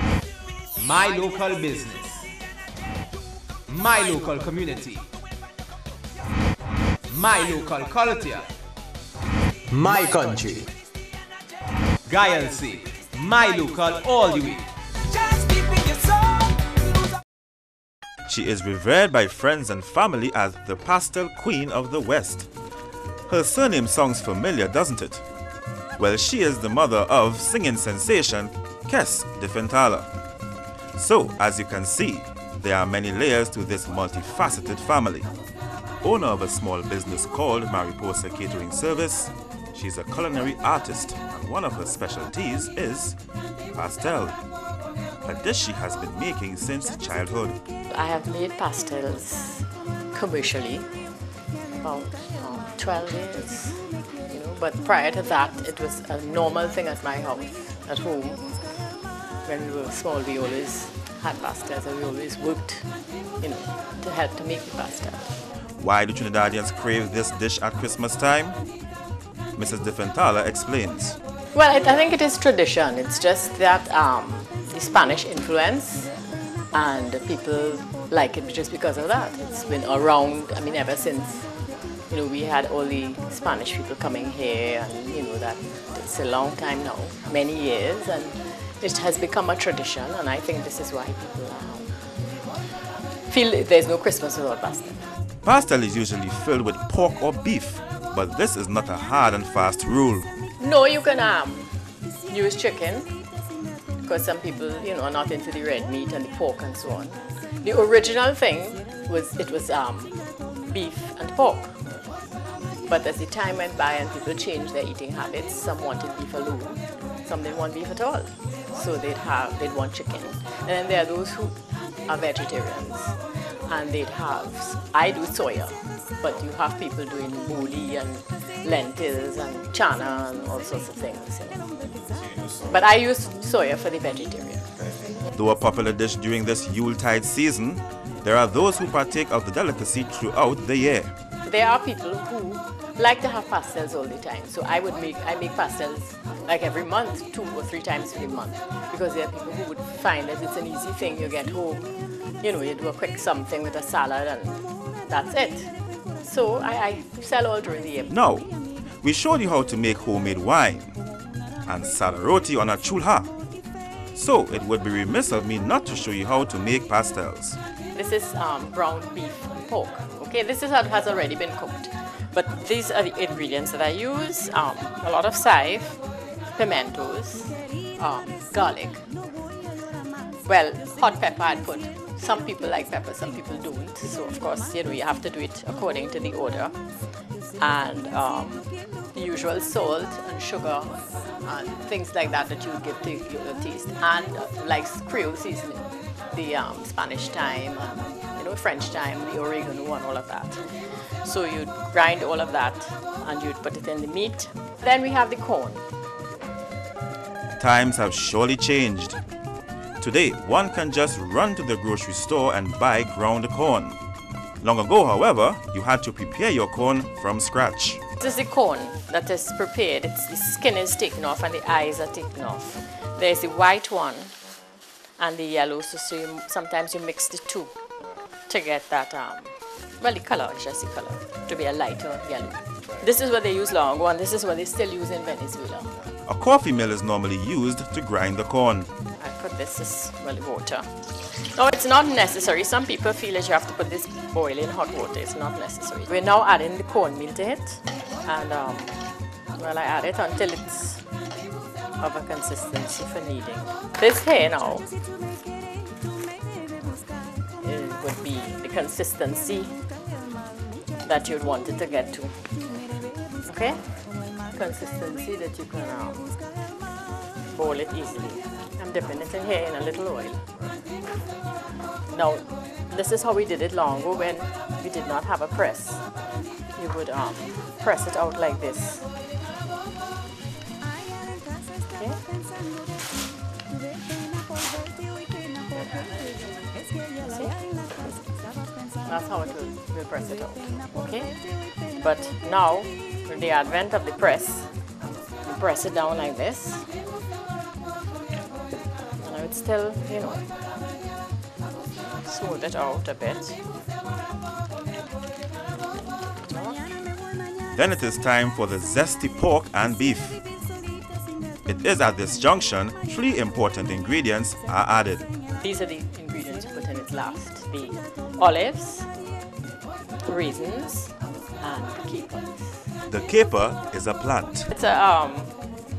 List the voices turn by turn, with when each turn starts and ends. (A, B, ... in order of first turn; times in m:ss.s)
0:00.8-0:02.3 A
0:03.7-0:05.1 A
0:07.1-0:08.5 A
0:09.7-0:10.7 A
0:12.0-0:16.9 A
0:18.3-0:22.5 B
0:23.3-0:25.2 B
0:26.0-0:30.1 B
0:31.0-0:35.3 B
0:36.0-0:43.2 B
0:43.8-0:44.4 B
0:45.2-0:47.6 B
0:47.9-0:50.9 C
0:51.8-0:58.6 C
0:59.4-1:02.9 C
1:03.4-1:05.3 C
1:05.8-1:08.6 B
1:09.6-1:11.2 B
1:11.5-1:16.1 C
1:16.7-1:21.5 C
1:22.1-1:32.0 C
1:33.3-1:35.1 C
1:35.4-1:40.3 B
1:40.6-1:41.8 C
1:42.3-1:43.1 C
1:44.0-1:51.8 C
1:52.9-2:11.7 C
2:12.7-2:14.7 C
2:15.3-2:21.1 B
2:21.4-2:31.9 C
2:32.4-2:38.1 C
2:38.1-2:38.5 B
2:39.0-2:41.0 B
2:41.7-2:43.3 B
2:44.2-2:47.6 B
2:47.9-2:56.0 C
2:56.6-2:59.0 C
3:00.5-3:06.8 C
3:07.6-3:25.8 C
3:27.6-3:29.2 B
3:30.0-3:34.0 B
3:34.6-3:38.0 B
3:38.2-3:44.4 C
3:45.2-3:47.7 C
3:48.5-3:55.9 C
3:56.3-3:58.9 B
3:59.2-4:09.0 C
4:09.6-4:11.0 C
4:12.0-4:14.9 C
4:17.6-4:19.8 C
4:21.0-4:22.5 C
4:23.4-4:24.0 C
4:24.5-4:26.3 C
4:27.5-4:30.5 C
4:32.1-4:36.0 C
4:36.8-4:39.1 C
4:41.9-4:42.2 C
4:45.8-4:46.2 C
4:47.2-4:47.8 C
4:49.0-4:54.8 C
4:55.4-4:56.9 C
4:59.2-5:00.4 C
5:02.2-5:03.6 C
5:06.2-5:06.9 C
5:07.7-5:10.4 B
5:11.7-5:15.3 B
5:15.6-5:19.1 C
5:20.2-5:22.9 C
5:23.1-5:24.7 B
5:24.7-5:25.5 C